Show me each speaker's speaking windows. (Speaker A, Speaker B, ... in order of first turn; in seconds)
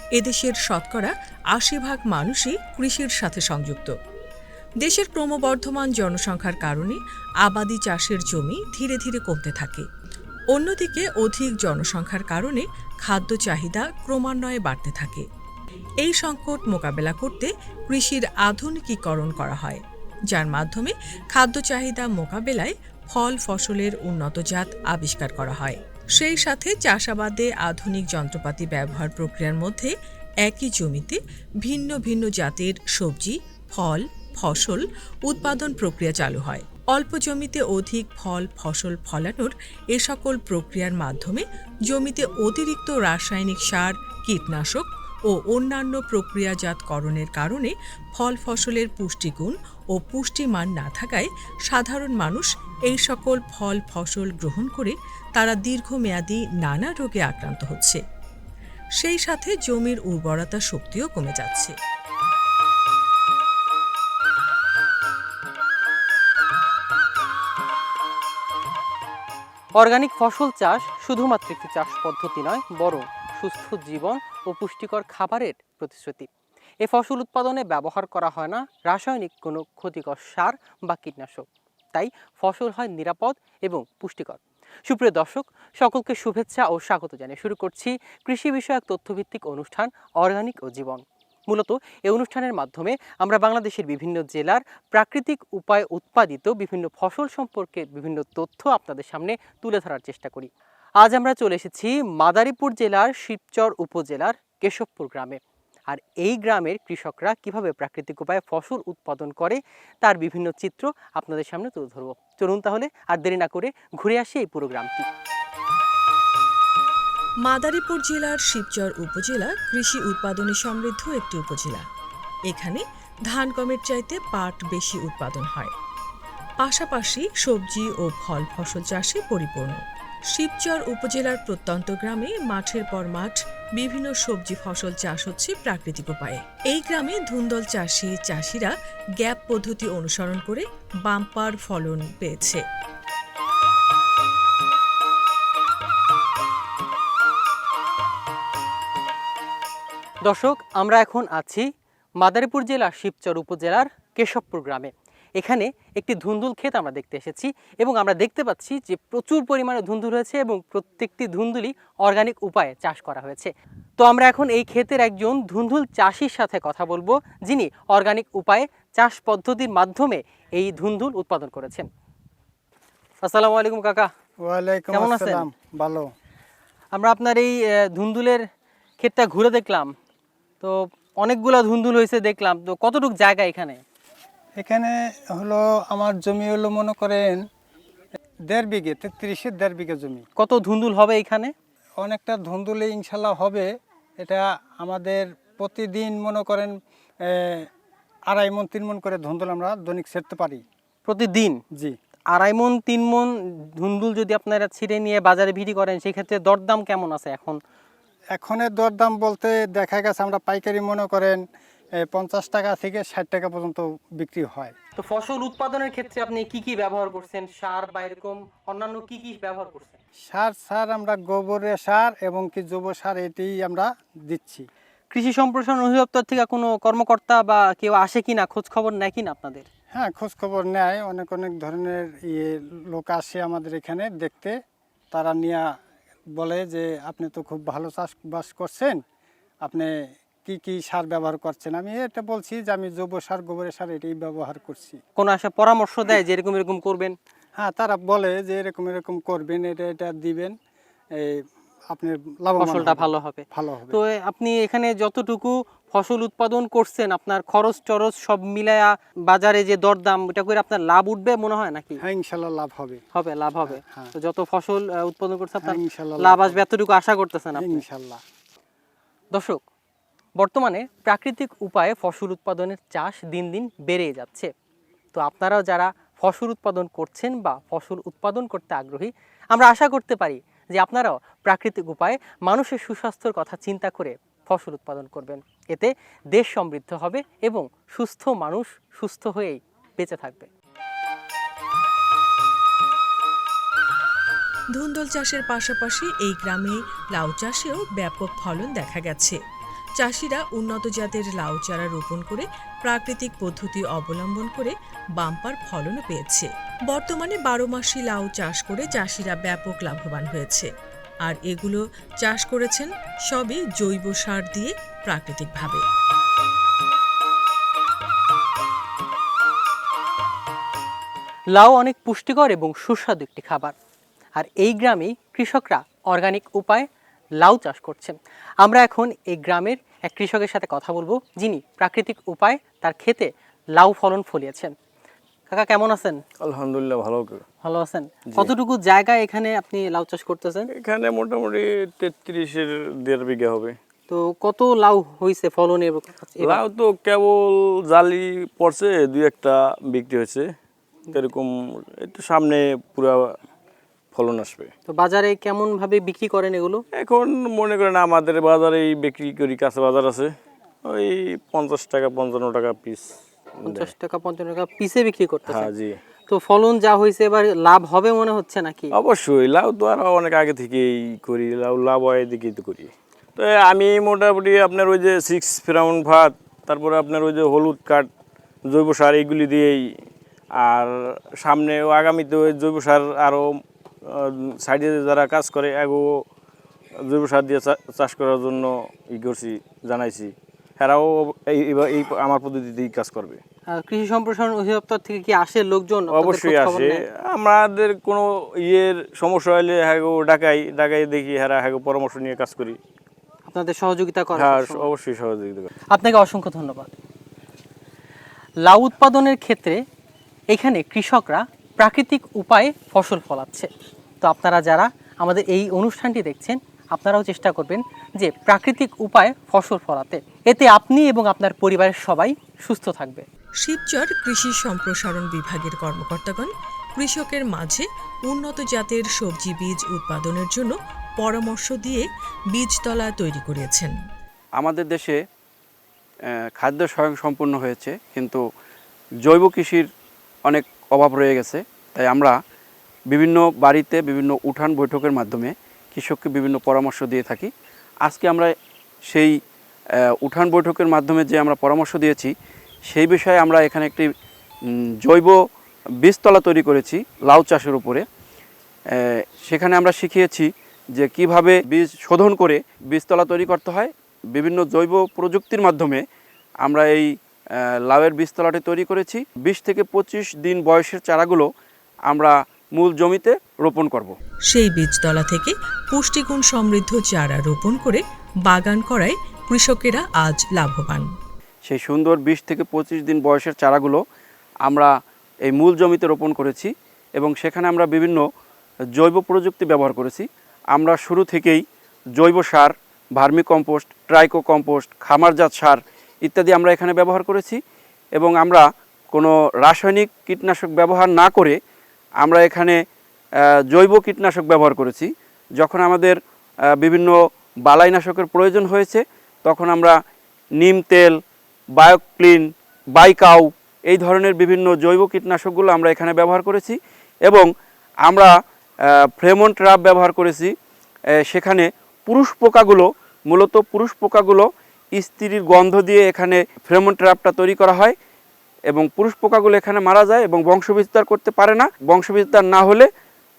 Speaker A: 0.1-3.9, 4.8-9.9, 10.5-15.3, 16.0-58.0, 59.0-61.8, 117.4-121.9, 122.5-125.7, 126.6-142.6, 294.7-299.4, 300.0-310.7, 311.2-315.8, 423.6-433.9, 474.5-481.1
Speaker B: 69.8-76.3, 76.8-100.5, 101.0-115.1, 150.2-151.7, 152.2-171.9, 173.2-174.1, 174.9-175.4, 176.9-178.4, 179.0-179.9, 180.6-183.8, 190.4-191.5, 201.1-201.6, 202.3-207.6, 215.0-220.0, 225.1-229.7, 245.2-247.2, 252.6-262.0, 263.1-267.8, 269.3-269.6, 270.4-274.5, 275.1-290.5, 321.6-323.7, 324.4-326.9, 327.4-334.7, 335.5-336.2, 337.6-340.7, 344.1-346.6, 354.9-356.8, 363.7-365.7, 366.3-368.9, 393.7-397.0, 403.5-404.9, 405.9-406.9, 408.7-409.8, 410.5-413.7, 414.2-423.2
Speaker C: 174.4-176.1, 184.6-187.4, 188.5-190.2, 192.0-197.7, 198.3-200.6, 208.3-211.4, 212.0-214.7, 220.2-224.7, 229.9-234.6, 235.1-235.8, 236.4-239.0, 239.6-239.9, 240.4-245.0, 247.6-250.6, 251.2-254.0, 262.0-263.0, 263.7-264.1, 265.6-266.6, 267.6-268.2
Speaker D: 336.4-337.4, 340.8-343.8, 346.5-350.5, 351.2-353.3, 354.1-354.7, 357.0-360.3, 360.9-363.1, 365.7-366.0, 369.0-378.1, 378.7-379.8, 380.6-380.9, 381.4-383.5, 384.6-386.2, 387.1-393.4, 396.4-402.8, 404.4-405.7
Speaker E: 434.6-435.2, 436.6-438.4, 439.2-439.9, 440.5-442.4, 443.1-447.5, 448.0-448.5, 449.1-449.4, 450.2-452.3, 452.9-454.1, 454.7-455.4, 456.0-458.1, 458.9-466.0, 466.6-471.5, 472.1-474.1, 481.6-484.0, 484.6-484.9, 485.5-488.2, 489.0-491.6, 492.2-497.6, 498.2-501.6, 502.2-502.8, 503.4-506.2, 506.8-510.0, 510.6-511.2, 511.8-517.5, 518.0-518.3, 519.2-520.5, 521.3-528.0, 528.7-532.9